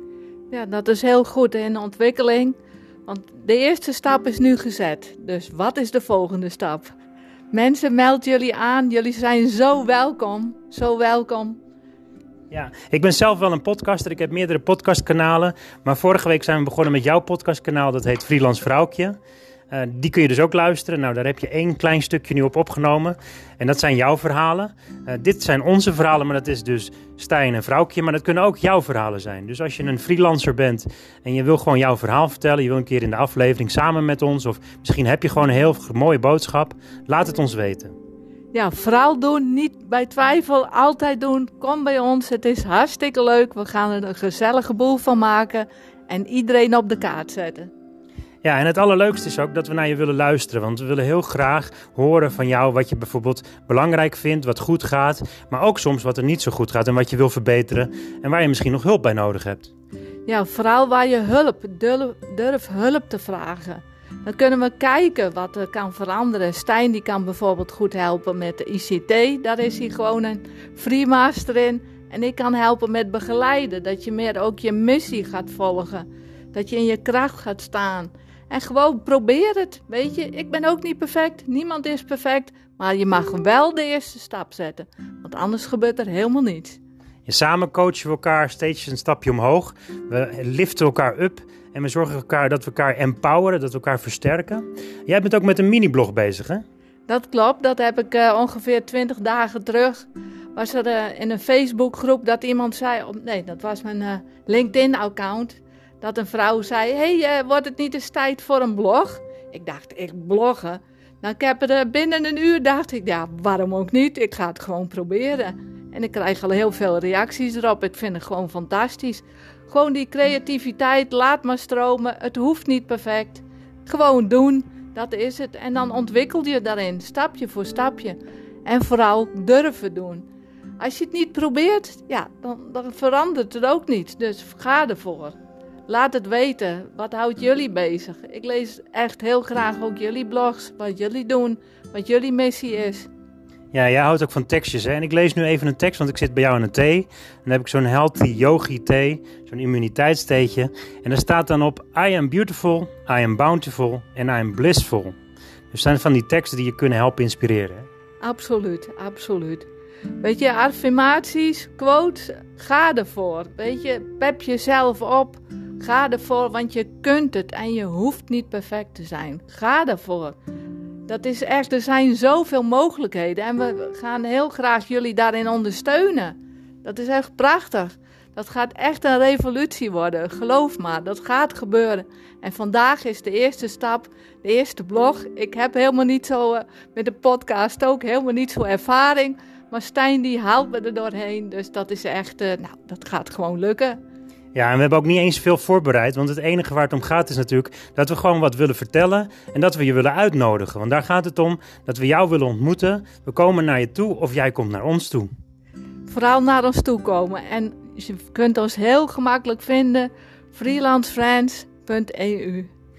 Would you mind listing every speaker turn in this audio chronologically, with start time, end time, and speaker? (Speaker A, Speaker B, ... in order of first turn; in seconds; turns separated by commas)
Speaker A: 0.5-6.9, Speaker A: 7.5-11.6, Speaker B: 12.5-19.2, Speaker B: 19.7-37.9, Speaker A: 38.5-47.7, Speaker B: 48.4-59.7, Speaker A: 60.2-86.8, Speaker B: 87.2-96.6, Speaker A: 97.1-130.2, Speaker A: 130.8-135.3, Speaker A: 135.9-143.1, Speaker B: 143.7-155.2, Speaker B: 155.7-157.9, Speaker A: 158.2-159.7, Speaker A: 160.2-170.3, Speaker A: 171.1-194.0, Speaker B: 194.5-205.3, Speaker A: 206.1-212.7